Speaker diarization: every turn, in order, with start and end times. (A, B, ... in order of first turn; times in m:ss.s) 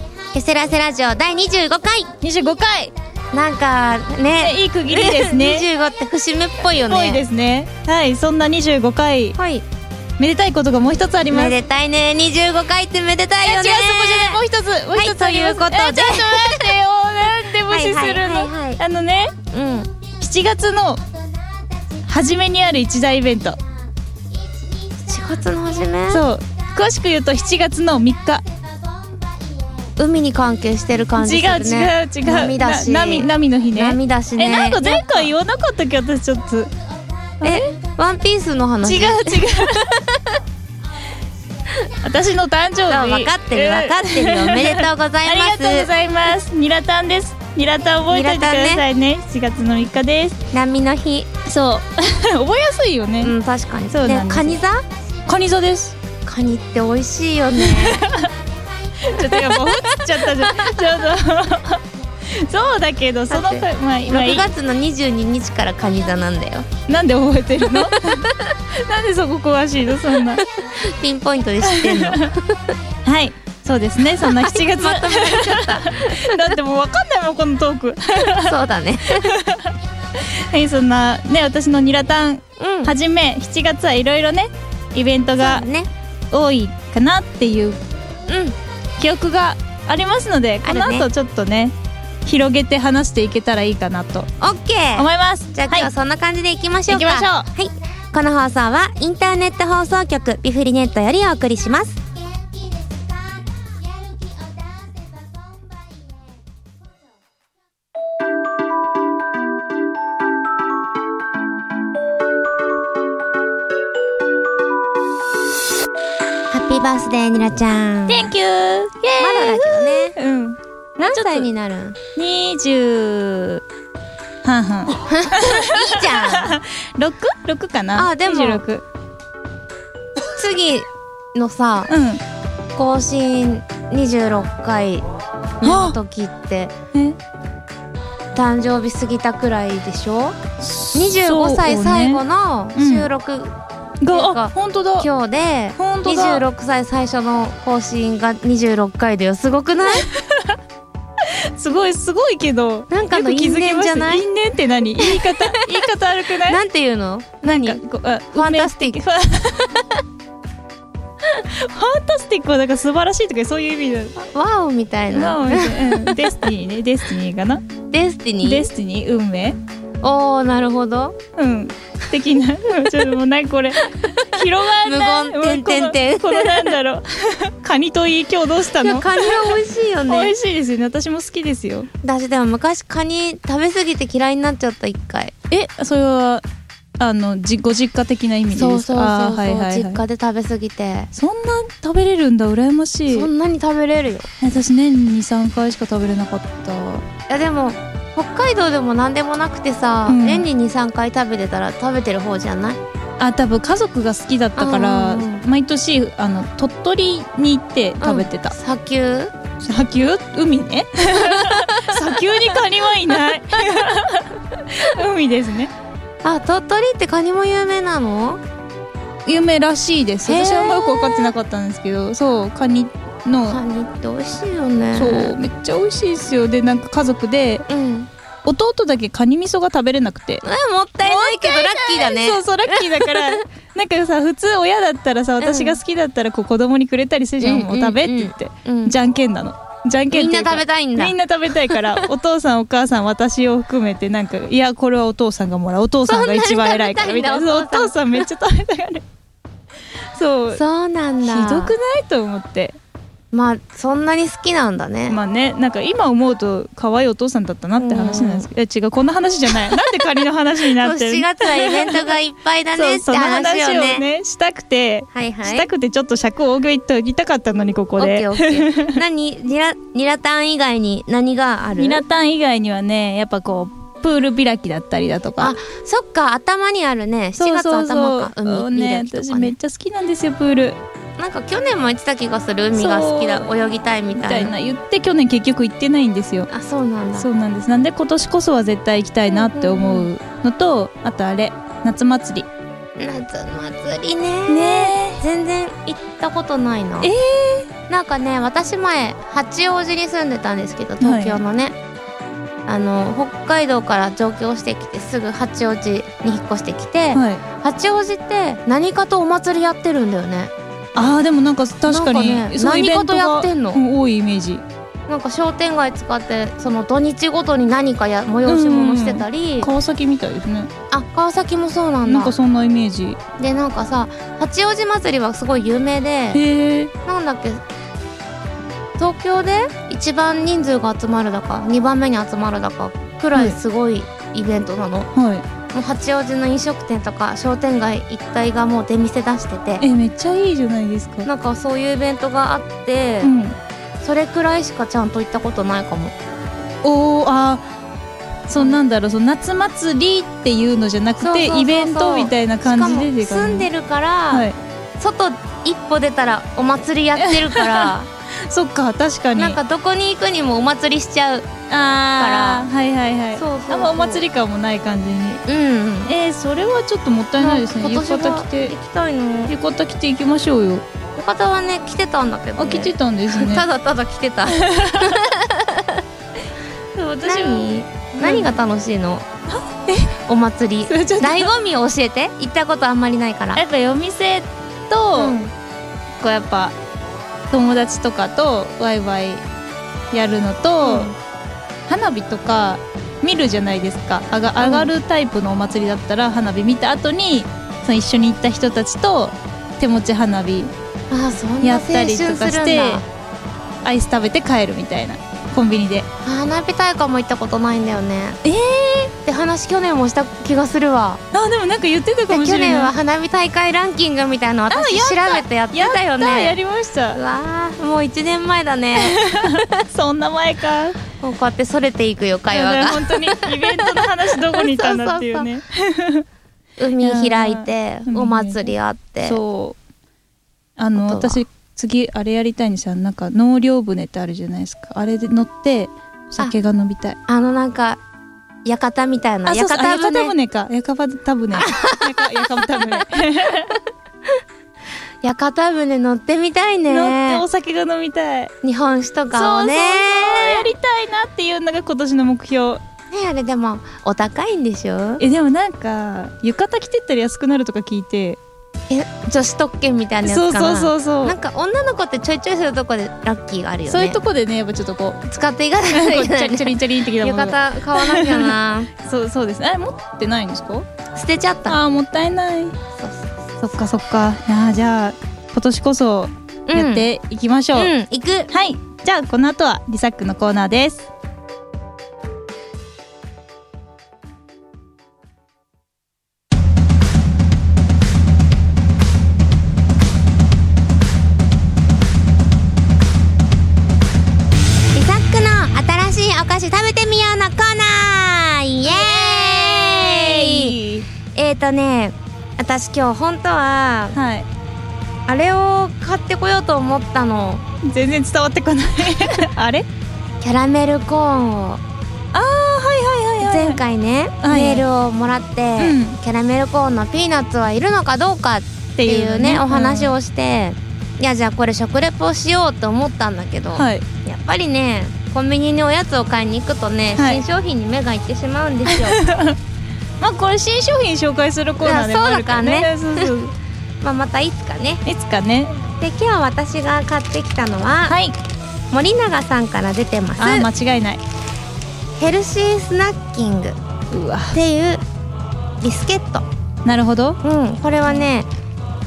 0:00.3-0:02.1 A
0:02.2-0:02.9 B
0:03.3-0:07.2 A
0:04.4-0:05.7 B
0:06.8-0:09.4 B
0:09.4-0:09.6 A
0:10.2-0:11.6 B
0:11.3-0:14.4 A
0:13.4-0:19.3 B
0:14.9-0:16.8 A
0:17.7-0:18.8 A
0:19.5-0:19.9 A
0:20.2-0:21.0 B
0:22.0-0:23.6 B
0:25.0-0:26.2 A
0:26.1-0:28.4 B
0:30.0-0:35.3 A
0:31.2-0:36.7 B
0:37.4-0:37.7 B
0:37.4-0:40.2 A
0:38.8-0:40.0 B
0:42.0-0:50.4 B
0:42.9-0:45.9 A
0:48.1-0:48.8 A
0:50.5-0:51.3 A
0:51.5-0:53.3 B
0:53.2-0:54.8 A
0:53.9-0:54.6 B
0:55.2-0:56.0 B
0:56.2-0:58.0 A
0:57.6-0:58.3 B
0:59.0-1:04.5 B
0:59.2-1:00.8 A
1:03.3-1:06.7 A
1:06.9-1:10.4 B
1:08.0-1:08.6 A
1:10.6-1:12.8 A
1:11.6-1:12.2 B
1:13.0-1:25.7 B
1:14.2-1:16.5 A
1:18.3-1:19.3 A
1:22.6-1:22.9 A
1:25.4-1:25.9 A
1:26.3-1:27.8 B
1:28.3-1:28.6 A
1:29.0-1:31.7 B
1:30.6-1:31.1 A
1:32.2-1:34.3 B
1:34.4-1:42.0 A
1:35.0-1:35.9 B
1:36.9-1:37.5 B
1:56.5-1:58.3 A
1:58.1-2:01.5 B
1:59.2-2:00.2 A
2:01.0-2:02.0 A
2:02.2-2:03.6 B
2:04.4-2:08.8 B
2:05.1-2:06.6 A
2:07.9-2:08.6 A
2:10.3-2:11.9 A
2:11.9-2:12.2 B
2:12.8-2:15.0 A
2:15.6-2:16.7 A
2:15.6-2:16.0 B
2:16.9-2:17.2 B
2:18.3-2:20.4 A
2:20.6-2:22.2 B
2:20.9-2:23.5 A
2:22.8-2:23.1 B
2:24.0-2:25.1 B
2:24.1-2:30.1 A
2:25.8-2:26.4 B
2:29.9-2:30.6 B
2:31.2-2:36.6 B
2:32.9-2:34.2 A
2:34.9-2:35.8 A
2:36.4-2:37.8 A
2:37.4-2:39.8 B
2:38.3-2:39.0 A
2:41.5-2:44.2 B
2:44.3-2:46.3 A
2:45.1-2:47.6 B
2:47.9-2:48.7 A
2:48.4-2:49.6 B
2:50.0-2:51.2 A
2:51.4-3:01.9 B
2:53.8-2:56.8 A
2:58.8-3:00.3 A
3:02.0-3:05.3 A
3:05.5-3:06.4 B
3:07.0-3:10.0 B
3:08.5-3:11.1 A
3:11.1-3:13.3 B
3:13.1-3:14.3 A
3:14.4-3:17.0 B
3:17.3-3:22.8 A
3:20.1-3:20.5 B
3:23.2-3:28.6 B
3:24.6-3:25.4 A
3:28.0-3:29.3 A
3:29.7-3:35.7 B
3:31.2-3:32.2 A
3:36.2-3:38.4 A
3:39.2-3:43.6 B
3:40.2-3:41.3 A
3:43.5-3:45.4 A
3:44.9-3:47.6 B
3:47.7-3:48.1 A
3:48.4-3:50.4 B
3:50.4-3:53.4 A
3:51.0-4:09.0 B
3:55.4-3:55.8 A
3:57.4-3:59.0 A
4:00.1-4:01.8 A
4:06.0-4:08.2 A
4:10.1-4:10.6 B
4:10.5-4:11.7 A
4:11.2-4:12.8 B
4:13.3-4:15.2 A
4:15.1-4:22.2 B
4:17.8-4:18.5 A
4:19.5-4:20.0 A
4:20.6-4:24.0 A
4:22.8-4:29.0 B
4:25.1-4:25.7 A
4:28.0-4:32.0 A
4:31.8-4:35.6 B
4:35.4-4:39.6 A
4:37.4-4:40.8 B
4:41.2-4:44.5 A
4:42.7-4:43.5 B
4:44.1-4:46.5 B
4:46.5-4:47.3 A
4:47.2-4:52.5 B
4:49.3-4:50.1 A
4:53.0-4:57.1 A
4:54.5-4:55.2 B
4:57.0-4:57.7 B
4:57.9-5:01.8 A
5:01.0-5:01.4 B
5:02.7-5:10.5 A
5:07.1-5:07.4 B
5:10.9-5:14.6 B
5:11.9-5:13.8 A
5:15.1-5:19.7 A
5:18.4-5:20.7 B
5:20.9-5:22.4 A
5:22.1-5:23.2 B
5:23.4-5:26.4 A
5:26.3-5:26.9 B
5:27.0-5:27.6 A
5:29.0-5:35.1 A
5:35.1-5:35.4 B
5:35.7-5:39.8 A
5:39.8-5:41.3 B
5:41.2-5:43.3 A
5:43.2-5:43.6 B
5:44.0-5:46.1 A
5:46.8-5:47.6 B
5:48.5-5:53.7 B
5:51.2-5:54.5 A
5:54.3-5:54.6 B
5:55.0-5:58.1 A
5:57.2-5:59.6 B
5:59.4-6:01.5 A
6:01.7-6:05.4 B
6:02.2-6:02.7 A
6:03.4-6:04.2 A
6:05.4-6:06.1 A
6:06.1-6:08.7 B
6:07.4-6:09.5 A
6:09.5-6:10.8 B
6:11.1-6:16.0 A
6:12.6-6:13.7 B
6:14.4-6:15.3 B
6:17.0-6:18.6 B
6:17.2-6:19.2 A
6:19.5-6:20.1 B
6:20.2-6:23.6 A
6:20.9-6:21.5 B
6:23.6-6:25.4 B
6:25.1-6:25.5 A
6:26.2-6:26.8 B
6:27.5-6:29.4 B
6:30.1-6:31.1 B
6:30.8-6:31.1 A
6:31.9-6:40.7 B
6:34.6-6:34.9 A
6:41.1-6:43.1 A
6:41.6-6:43.0 B
6:43.8-6:46.1 B
6:46.2-6:48.4 A
6:48.4-6:49.1 B
6:49.2-6:51.2 A
6:51.3-6:52.9 B
6:52.3-6:56.6 A
6:54.7-6:57.2 B
6:57.1-6:59.2 A
6:59.0-7:01.0 B
7:01.2-7:05.5 A
7:02.5-7:06.2 B
7:06.8-7:09.4 A
7:07.0-7:09.8 B
7:10.8-7:17.2 B
7:10.9-7:11.4 A
7:17.3-7:18.0 A
7:18.6-7:20.3 A
7:19.4-7:23.8 B
7:21.5-7:23.0 A
7:25.2-7:27.4 A
7:26.9-7:28.5 B
7:28.6-7:30.7 A
7:29.3-7:32.8 B
7:33.1-7:35.2 A
7:35.2-7:38.4 B
7:38.9-7:44.2 A
7:40.2-7:41.4 B
7:43.9-7:45.3 B
7:45.3-7:48.9 A
7:45.9-7:50.9 B
7:51.1-7:51.8 A
7:51.7-7:52.8 B
7:53.0-7:53.6 A
7:53.6-7:57.9 B
7:56.7-7:57.1 A
7:57.8-7:58.5 A
7:58.5-8:01.1 B
8:14.9-8:20.8 A
8:18.8-8:21.1 B
8:21.3-8:24.2 A
8:24.2-8:24.5 B
8:25.3-8:27.6 A
8:27.8-8:29.8 B
8:30.4-8:31.8 A
8:32.3-8:33.8 B
8:33.4-8:49.2 A
8:34.4-8:34.8 B
8:35.8-8:36.2 B
8:39.0-8:40.1 B
8:43.7-8:44.0 B
8:47.2-8:47.4 B
8:48.9-8:49.6 B
8:50.2-8:53.5 B
8:51.8-8:53.3 A
8:54.0-8:55.0 A
8:55.0-8:55.8 B
8:56.0-8:58.2 A
8:58.1-8:58.4 B
8:58.9-9:00.7 A
9:00.4-9:01.2 B
9:02.2-9:03.8 A
9:04.1-9:04.6 B
9:04.5-9:05.0 A
9:05.8-9:06.4 A
9:06.8-9:07.4 B
9:07.4-9:08.5 A